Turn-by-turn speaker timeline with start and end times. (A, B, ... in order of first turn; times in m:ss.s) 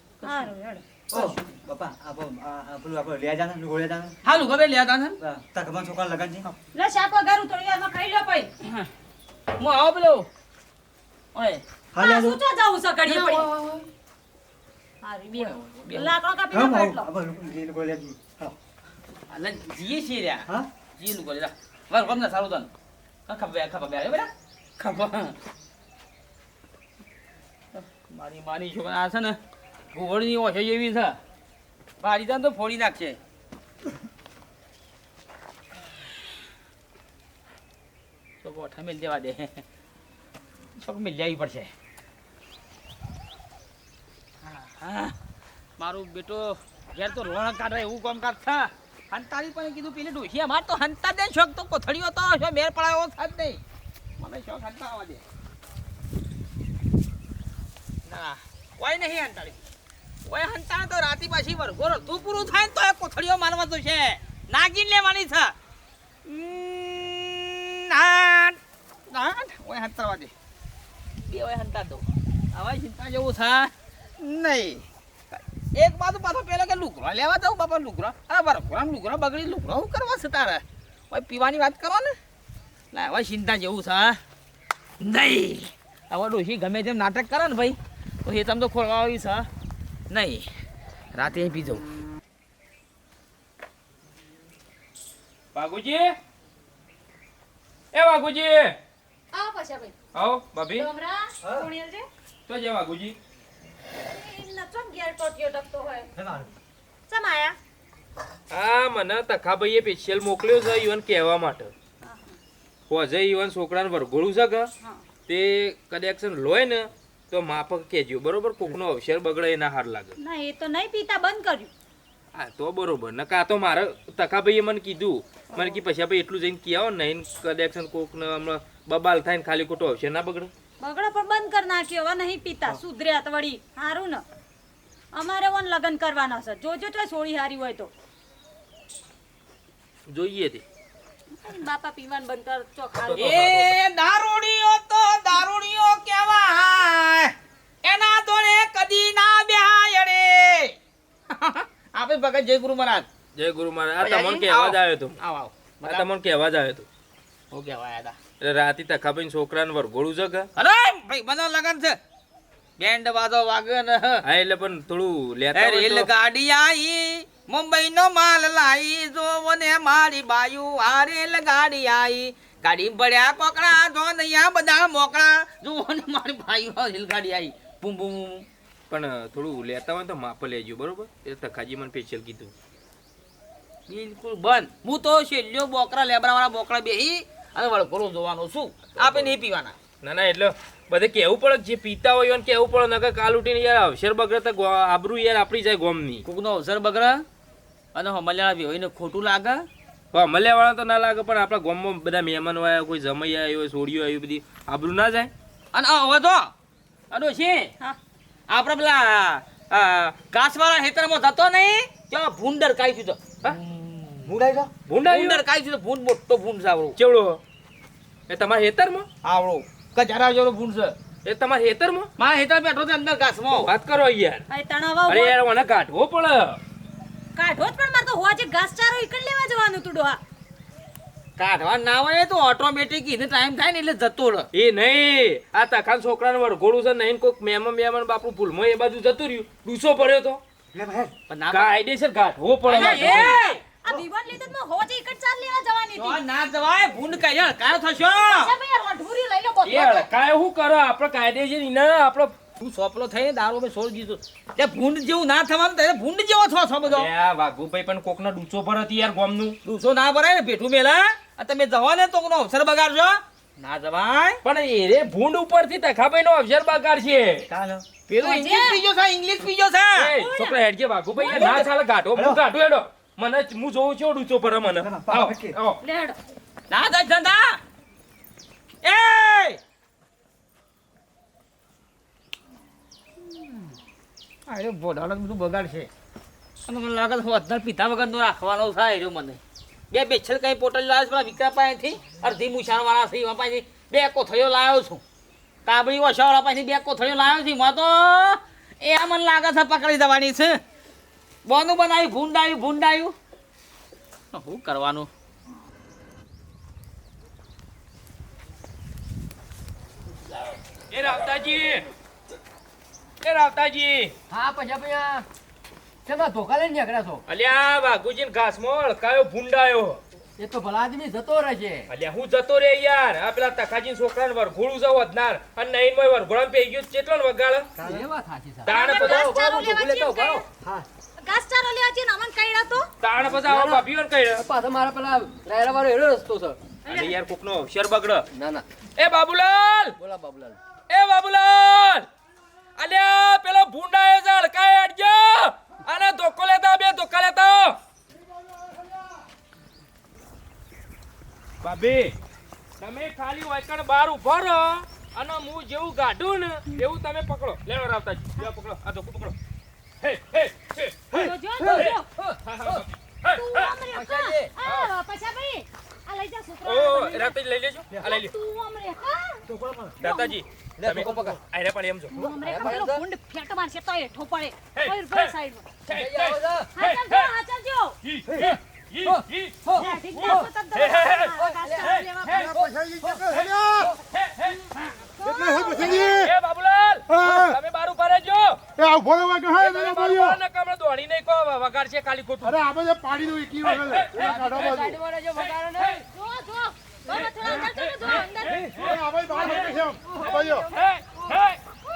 0:00.2-0:00.5 A
0:00.2-0:01.2 B
0:01.1-0:04.2 C
0:04.2-0:05.2 A
0:05.2-0:06.5 C
0:06.7-0:08.5 B
0:08.6-0:08.9 A
0:09.6-0:10.3 A
0:11.3-0:11.6 A
0:11.9-0:12.4 C
0:12.0-0:13.5 B
0:13.1-0:13.5 A
0:13.2-0:13.8 C
0:15.0-0:17.1 B
0:15.3-0:16.1 A
0:16.5-0:18.6 C
0:19.3-0:22.7 A
0:23.3-0:25.4 A
0:27.7-0:29.4 A
0:29.9-0:31.2 A
0:32.0-0:33.2 A
0:38.4-0:39.6 A
0:40.8-0:41.7 A
0:44.5-0:45.2 A
0:45.8-0:53.6 A
0:54.2-0:55.2 A
0:58.1-0:59.6 A
1:00.3-1:05.6 A
1:06.2-1:10.3 A
1:11.3-1:22.2 A
1:22.9-1:24.2 A
1:25.0-1:29.5 A
1:30.1-1:30.5 A
1:31.2-1:31.8 A
1:35.5-1:36.2 D
1:37.9-1:38.8 D
1:39.3-1:39.9 B
1:40.2-1:40.9 D
1:40.7-1:42.1 B
1:42.5-1:43.2 D
1:44.0-1:46.1 B
1:46.2-1:46.5 C
1:47.1-1:47.6 B
1:48.5-1:51.7 D
1:52.0-1:52.4 B
1:52.9-1:54.7 D
1:55.3-2:00.1 D
2:00.2-2:01.7 B
2:02.4-2:10.5 D
2:10.8-2:14.2 B
2:15.1-2:17.9 B
2:20.1-2:20.6 D
2:21.4-2:23.3 B
2:23.0-2:23.8 D
2:23.2-2:30.8 A
2:31.3-2:33.1 A
2:33.4-2:35.2 D
2:34.0-2:36.1 A
2:35.8-2:36.9 D
2:37.5-2:38.2 A
2:38.4-2:40.5 D
2:40.6-2:42.0 A
2:42.8-2:44.2 A
2:44.2-2:46.1 D
2:45.5-2:58.5 A
2:58.9-3:02.5 D
3:03.9-3:09.8 A
3:09.0-3:09.4 D
3:10.0-3:16.2 D
3:16.2-3:17.3 A
3:17.9-3:19.7 A
3:20.1-3:25.3 D
3:25.7-3:26.5 A
3:27.1-3:27.7 A
3:28.5-3:37.0 A
3:34.9-3:35.4 D
3:37.0-3:37.4 D
3:38.3-3:39.1 D
3:39.2-3:41.0 A
3:41.2-3:42.1 D
3:42.2-3:43.7 A
3:43.6-3:44.5 D
3:44.5-3:45.4 B
3:45.1-3:46.6 D
3:47.4-3:50.2 B
3:51.4-3:54.5 A
3:54.5-4:00.4 D
4:00.7-4:01.1 C
4:01.3-4:01.7 A
4:01.5-4:03.4 D
4:02.7-4:03.6 A
4:02.7-4:06.2 B
4:06.0-4:08.5 A
4:08.0-4:10.1 B
4:09.6-4:12.4 D
4:12.6-4:17.1 A
4:16.9-4:19.6 D
4:19.6-4:24.4 A
4:24.4-4:27.4 D
4:27.5-4:27.8 C
4:28.1-4:30.1 A
4:28.2-4:28.8 B
4:30.0-4:35.8 D
4:30.1-4:30.6 B
4:31.2-4:31.4 B
4:31.3-4:31.6 A
4:31.4-4:32.4 C
4:34.8-4:35.6 C
4:35.8-4:36.2 B
4:36.7-4:37.6 A
4:38.8-4:39.6 A
4:44.5-4:45.9 A
4:46.6-4:55.0 A
4:55.7-5:00.6 A
5:01.4-5:03.2 A
5:04.3-5:05.1 A
5:10.9-5:11.9 D
5:13.2-5:14.1 D
5:14.3-5:15.3 E
5:16.1-5:17.2 E
5:17.3-5:20.0 D
5:20.4-5:21.9 E
5:21.9-5:27.7 D
5:27.8-5:30.9 E
5:28.7-5:30.5 B
5:28.7-5:29.3 D
5:31.2-5:32.9 B
5:33.0-5:34.4 D
5:33.2-5:36.6 E
5:36.8-5:37.2 B
5:36.9-5:38.3 D
5:38.3-5:38.6 E
5:39.0-5:40.0 D
5:40.0-5:40.6 E
5:40.9-5:42.1 D
5:42.8-5:47.8 D
5:51.6-5:52.1 D
5:52.8-5:59.4 D
6:00.0-6:03.8 D
6:01.1-6:02.1 B
6:03.3-6:07.4 B
6:03.9-6:04.5 E
6:04.6-6:04.9 D
6:06.6-6:08.3 D
6:08.0-6:09.4 B
6:09.5-6:10.0 E
6:10.0-6:12.1 D
6:10.0-6:10.4 B
6:10.8-6:11.4 E
6:12.1-6:15.7 B
6:12.2-6:13.0 E
6:14.8-6:15.3 D
6:15.9-6:17.3 D
6:15.9-6:16.7 E
6:16.8-6:18.0 B
6:18.0-6:22.5 D
6:18.3-6:20.5 E
6:19.8-6:22.8 B
6:21.4-6:21.9 E
6:22.5-6:23.7 F
6:24.1-6:24.7 D
6:25.2-6:26.2 B
6:25.3-6:25.7 F
6:25.7-6:28.6 D
6:28.8-6:30.3 F
6:29.5-6:32.8 D
6:32.7-6:34.1 F
6:33.6-6:34.8 D
6:34.1-6:36.0 E
6:36.1-6:38.8 B
6:37.5-6:39.0 D
6:38.9-6:40.6 F
6:39.3-6:40.6 E
6:39.4-6:39.8 B
6:40.2-6:41.6 D